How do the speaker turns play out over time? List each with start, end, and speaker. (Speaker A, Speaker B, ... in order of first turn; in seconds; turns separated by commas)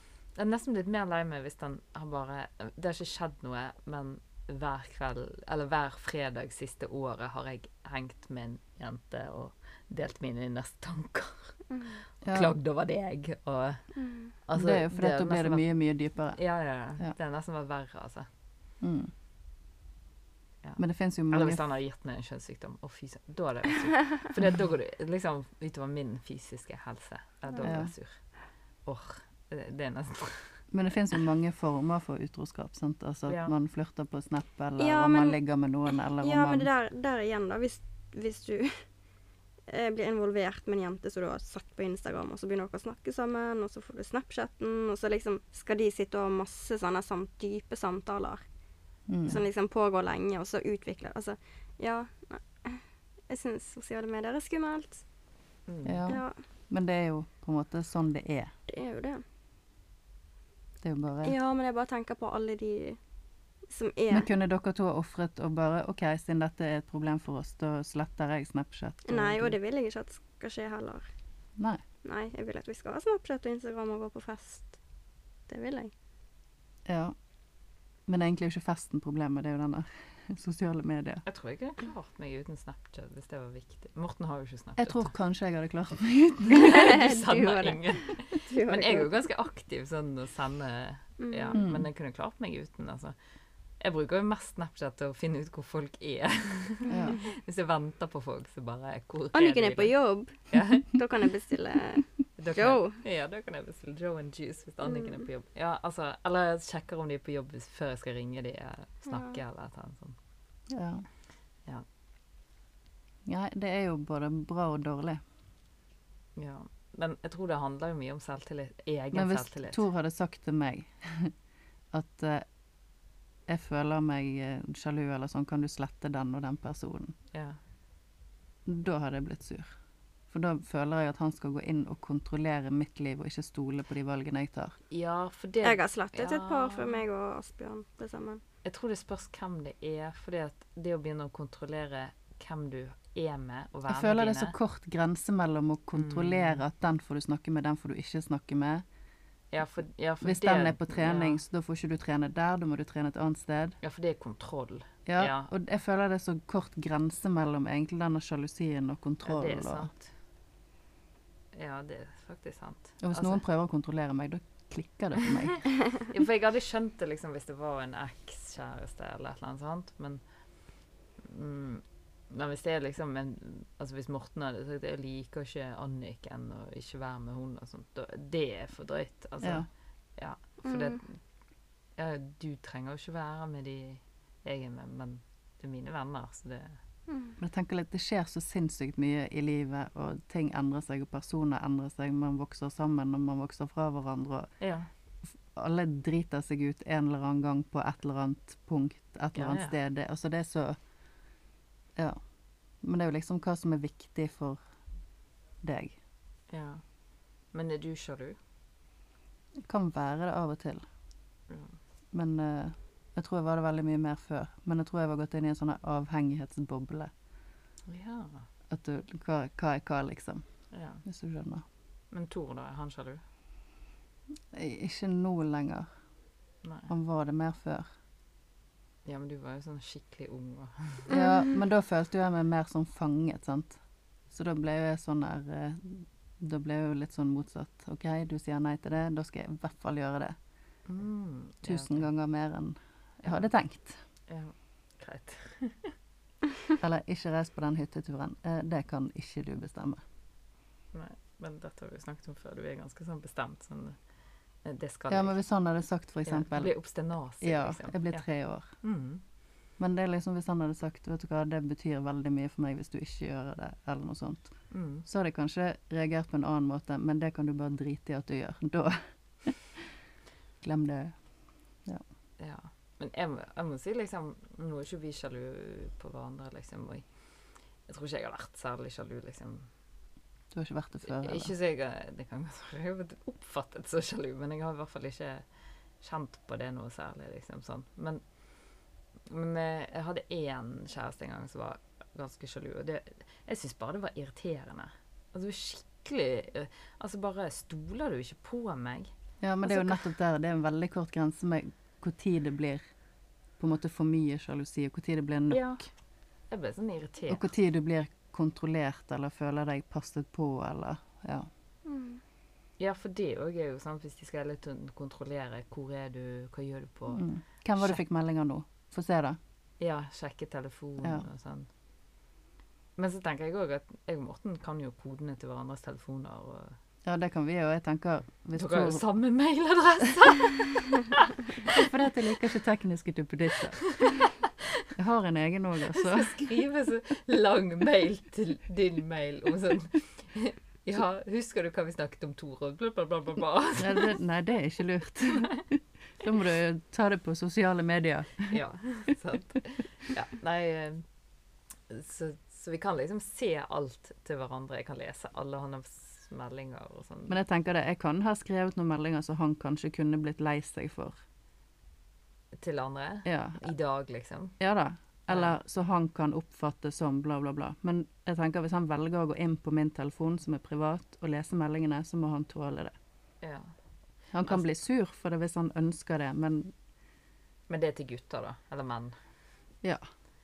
Speaker A: 0.3-11.6, Speaker B: 11.7-12.0, Speaker A: 12.2-13.9, Speaker C: 12.2-12.5, Speaker B: 14.0-14.3, Speaker A: 14.4-15.6, Speaker C: 14.5-16.4, Speaker A: 16.3-18.3, Speaker C: 18.8-19.1, Speaker A: 20.6-28.2, Speaker C: 20.8-21.6, Speaker B: 27.5-27.8, Speaker C: 27.6-27.9, Speaker A: 28.9-30.6, Speaker C: 30.7-36.7, Speaker A: 33.3-33.5, Speaker B: 34.8-35.4, Speaker B: 36.2-38.9, Speaker B: 39.7-48.4, Speaker C: 49.1-49.4, Speaker B: 49.3-55.0, Speaker A: 55.7-56.1, Speaker C: 55.8-58.5, Speaker B: 56.1-56.4, Speaker B: 58.7-59.2, Speaker C: 60.8-61.3, Speaker B: 61.2-63.0, Speaker B: 63.7-64.3, Speaker C: 64.1-69.6, Speaker B: 69.1-71.1, Speaker B: 72.0-74.8, Speaker B: 75.5-75.9, Speaker C: 76.9-77.1, Speaker C: 78.1-81.2, Speaker A: 81.3-85.1, Speaker C: 84.8-86.9, Speaker B: 86.5-89.1, Speaker A: 86.5-93.1, Speaker B: 91.2-91.6, Speaker C: 91.5-91.9, Speaker A: 93.8-101.0, Speaker C: 96.9-97.2, Speaker B: 99.3-103.0, Speaker A: 102.4-110.2, Speaker B: 104.8-105.3, Speaker B: 109.1-109.4, Speaker C: 110.7-111.1, Speaker C: 113.3-115.2, Speaker A: 116.4-119.8, Speaker C: 119.1-121.3, Speaker C: 121.9-122.4, Speaker C: 123.5-127.1, Speaker A: 127.3-127.6, Speaker C: 128.7-129.7, Speaker C: 130.3-134.8, Speaker A: 134.9-137.0, Speaker B: 135.6-138.4, Speaker A: 138.6-144.5, Speaker C: 143.9-148.8, Speaker A: 145.9-146.6, Speaker A: 149.5-151.4, Speaker C: 150.2-153.8, Speaker A: 153.8-155.5, Speaker C: 155.1-159.9, Speaker A: 159.2-160.1, Speaker A: 161.5-163.4, Speaker C: 163.0-165.7, Speaker A: 165.2-165.5, Speaker A: 166.1-170.2, Speaker A: 171.2-179.7, Speaker C: 179.4-179.7, Speaker A: 180.2-181.2, Speaker B: 180.6-181.0, Speaker A: 182.0-186.8, Speaker B: 187.1-187.4, Speaker C: 187.4-194.5, Speaker A: 194.6-194.9, Speaker C: 195.5-200.8, Speaker A: 199.3-199.8, Speaker C: 202.8-204.6, Speaker C: 205.6-206.0, Speaker A: 206.5-206.8, Speaker A: 207.5-208.4, Speaker C: 209.6-210.8, Speaker A: 211.5-211.8, Speaker C: 212.1-217.1, Speaker A: 217.9-218.5, Speaker C: 218.7-220.4, Speaker A: 220.7-221.0, Speaker C: 221.1-221.6, Speaker A: 222.1-223.2, Speaker C: 224.5-225.9, Speaker A: 226.6-226.9, Speaker C: 226.9-227.9, Speaker A: 229.1-231.1, Speaker C: 231.1-233.8, Speaker B: 231.1-231.5, Speaker C: 234.3-240.4, Speaker A: 240.9-242.1, Speaker C: 241.6-244.0, Speaker A: 244.3-245.9, Speaker C: 246.8-250.0, Speaker A: 250.9-254.0, Speaker A: 254.6-255.4, Speaker C: 255.1-256.7, Speaker A: 256.3-258.2, Speaker C: 257.4-258.6, Speaker A: 258.8-259.2, Speaker C: 259.8-264.5, Speaker A: 264.7-265.1, Speaker C: 265.1-269.8, Speaker C: 270.6-271.1, Speaker A: 272.4-277.1, Speaker A: 277.9-279.7, Speaker C: 280.5-281.5, Speaker A: 281.1-285.4, Speaker A: 286.0-288.2, Speaker A: 289.3-299.1, Speaker C: 299.4-302.8, Speaker A: 299.6-300.0, Speaker C: 303.6-305.8, Speaker A: 305.5-305.8, Speaker A: 306.5-307.5, Speaker C: 307.3-311.5, Speaker B: 311.9-312.2, Speaker A: 312.8-317.2, Speaker C: 317.1-319.4, Speaker A: 317.8-318.0, Speaker A: 319.8-321.7, Speaker A: 323.0-326.8, Speaker C: 327.1-329.0, Speaker A: 328.6-331.9, Speaker C: 331.6-333.9, Speaker A: 333.9-334.3, Speaker C: 335.0-336.4, Speaker A: 335.9-344.1, Speaker C: 343.8-348.6, Speaker A: 348.5-351.0, Speaker A: 351.9-357.4, Speaker C: 357.3-361.1, Speaker A: 362.6-364.6, Speaker C: 363.2-363.6, Speaker C: 364.6-372.9, Speaker A: 365.3-365.6, Speaker A: 373.4-373.7, Speaker C: 374.3-376.7, Speaker A: 377.7-379.1